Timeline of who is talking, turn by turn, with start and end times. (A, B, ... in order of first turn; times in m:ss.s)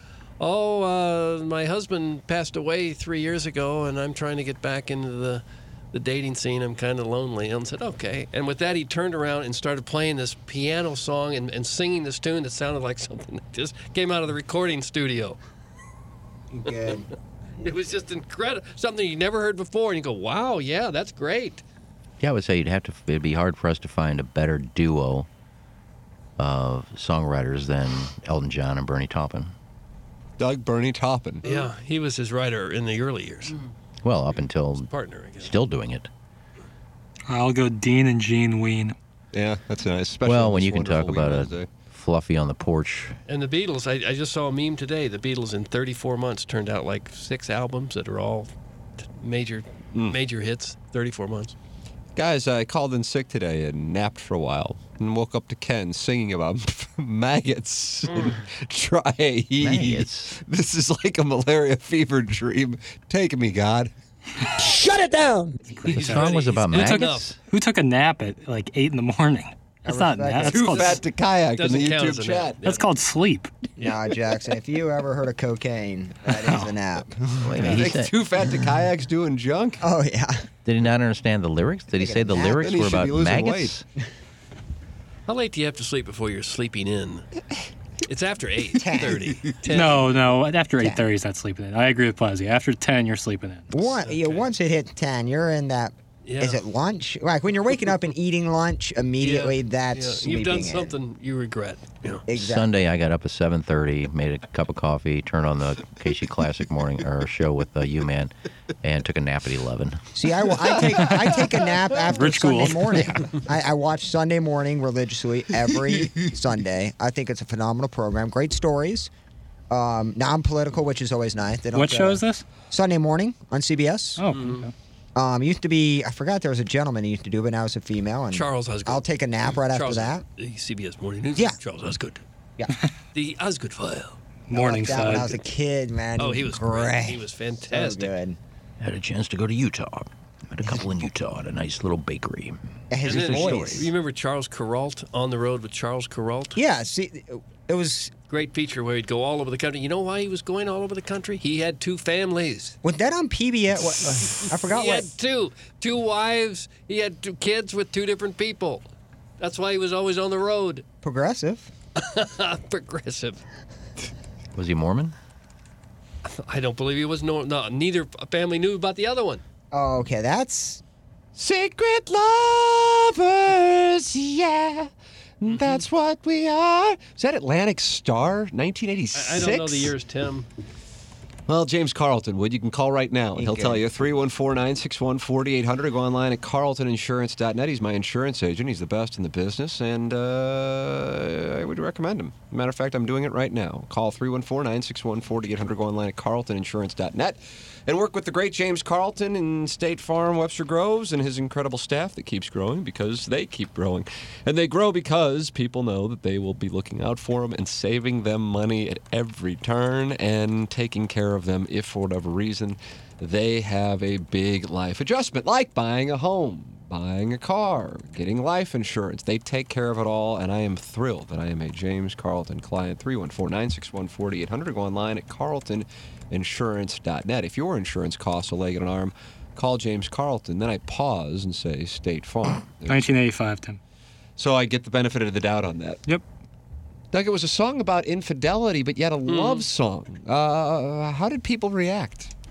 0:00.4-0:15.4 A
0:16.5-0:17.1 B
0:17.6-0:21.6 A
0:22.2-0:25.3 C
0:26.4-0:29.5 C
0:30.4-0:31.6 D
0:31.4-0:33.6 A
0:34.0-0:36.1 C
0:34.9-0:35.5 A
0:37.3-0:38.9 E
0:39.3-0:41.7 D
0:40.2-0:43.2 C
0:43.3-0:51.6 A
0:49.9-0:50.2 D
0:52.2-1:03.9 D
0:58.1-0:58.4 A
0:59.6-1:00.4 C
1:04.5-1:05.6 B
1:05.8-1:11.0 E
1:05.9-1:07.3 A
1:05.9-1:07.3 C
1:09.9-1:10.8 B
1:10.4-1:12.6 D
1:10.4-1:11.0 A
1:11.6-1:12.9 A
1:12.6-1:13.5 E
1:13.8-1:17.9 B
1:16.3-1:16.8 E
1:17.4-1:18.2 C
1:17.6-1:19.8 D
1:19.8-1:20.4 B
1:20.6-1:23.8 C
1:21.9-1:22.7 B
1:22.6-1:23.8 D
1:25.2-1:27.3 A
1:28.1-1:30.1 A
1:28.8-1:29.3 B
1:29.7-1:33.7 E
1:30.8-1:31.0 B
1:33.7-1:40.9 B
1:34.0-1:34.5 A
1:36.2-1:36.6 A
1:39.2-1:42.2 A
1:42.3-1:42.7 B
1:42.3-1:50.1 C
1:50.1-1:59.1 B
1:52.1-1:53.2 E
1:59.7-2:04.2 B
2:01.7-2:02.4 E
2:04.2-2:04.7 E
2:04.3-2:04.7 A
2:05.1-2:10.2 B
2:08.3-2:12.2 A
2:13.1-2:14.2 A
2:14.5-2:15.4 E
2:14.5-2:18.4 B
2:16.2-2:18.2 A
2:18.8-2:22.6 C
2:22.9-2:23.9 B
2:23.0-2:26.6 A
2:23.1-2:23.8 D
2:26.6-2:28.1 B
2:28.3-2:32.8 A
2:32.8-2:35.1 B
2:34.7-2:38.9 A
2:39.4-2:40.8 A
2:41.0-2:41.7 B
2:42.0-2:43.4 A
2:44.5-2:45.1 C
2:46.2-2:49.4 A
2:49.7-2:50.8 B
2:51.4-2:59.9 D
2:55.5-2:55.8 A
2:59.1-3:00.5 A
3:01.5-3:53.1 D
3:03.4-3:03.8 B
3:52.9-3:53.8 E
3:54.4-3:56.0 D
3:57.1-4:02.3 D
3:59.3-3:59.6 A